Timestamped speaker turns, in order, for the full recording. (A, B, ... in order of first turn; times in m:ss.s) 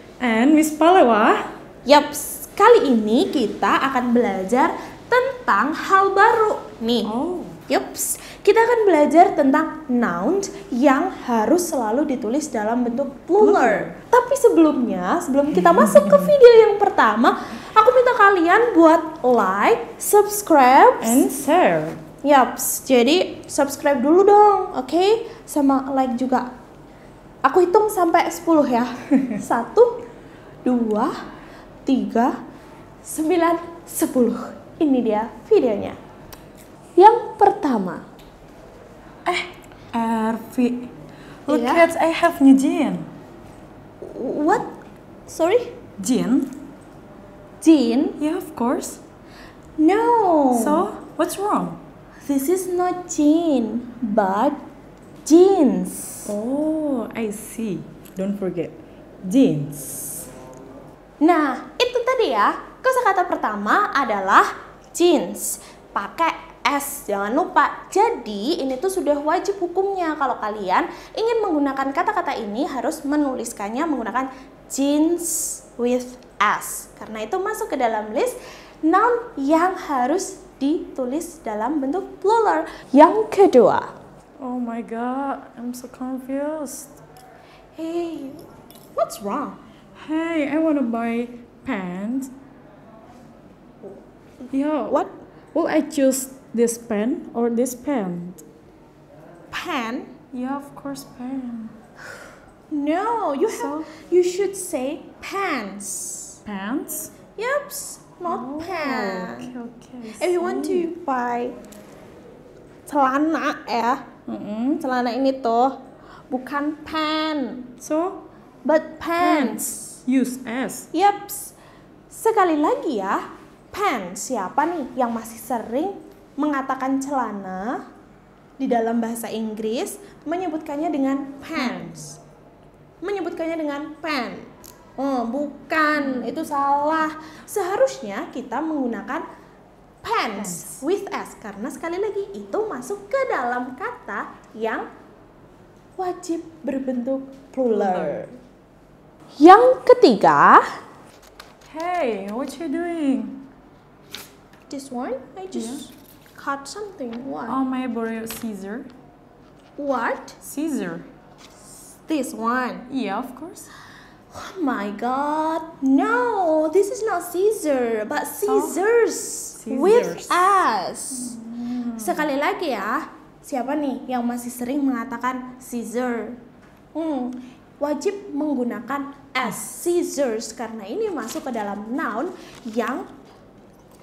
0:00.2-0:01.5 A
0:01.8-0:07.1 B
0:07.0-0:07.6 A
0:07.7-0:21.2 B
0:13.4-0:13.9 A
0:15.8-0:16.3 A
0:21.0-0:22.0 A
0:22.2-0:26.5 B
0:27.4-0:30.0 B
0:30.6-0:31.1 B
0:31.8-0:32.3 B
0:33.0-0:36.0 B
0:37.0-0:38.0 B
0:39.2-0:40.9 A
0:41.4-0:43.1 A
0:41.5-0:41.9 B
0:44.0-0:44.7 B
0:45.3-0:45.7 B
0:46.0-0:46.5 A
0:47.6-0:48.2 B
0:48.2-0:49.0 A
0:49.8-0:50.8 B
0:50.5-0:51.8 A
0:52.2-0:54.6 B
0:55.2-0:56.3 B
0:56.2-1:00.3 A
1:01.2-1:23.9 B
1:24.4-1:26.9 A
1:27.7-1:29.6 B
1:30.0-1:32.3 A
1:34.5-1:35.0 A
1:35.5-1:38.4 A
1:39.5-1:40.1 B
1:40.3-1:41.7 A
1:42.7-1:46.4 B
1:43.5-1:43.9 A
1:46.4-1:47.1 A
1:47.3-1:49.5 B
1:48.2-1:50.9 A
1:50.2-1:51.6 B
1:52.8-1:54.0 B
1:54.3-1:54.8 A
1:54.8-1:55.8 B
1:56.3-1:57.7 B
1:57.8-1:58.2 A
1:58.6-1:59.6 B
1:59.2-2:00.9 A
2:00.9-2:01.5 B
2:02.1-2:03.2 B
2:03.7-2:07.8 B
2:08.6-2:12.2 B
2:11.6-2:12.0 A
2:13.0-2:19.2 B
2:15.9-2:16.4 A
2:20.0-2:24.9 B
2:20.4-2:20.8 A
2:26.0-2:28.3 B
2:27.7-2:28.2 A
2:29.4-2:30.6 B
2:31.6-2:33.4 A
2:34.7-2:37.6 B
2:35.5-2:35.8 A
2:37.5-2:38.9 A
2:39.8-2:40.4 B
2:40.4-2:41.1 A
2:42.1-2:42.9 B
2:42.9-2:43.7 A
2:44.3-2:51.3 B
2:48.4-2:48.8 A
2:49.6-2:50.4 A
2:51.1-2:52.3 A
2:52.0-2:56.4 B
2:56.9-3:03.0 B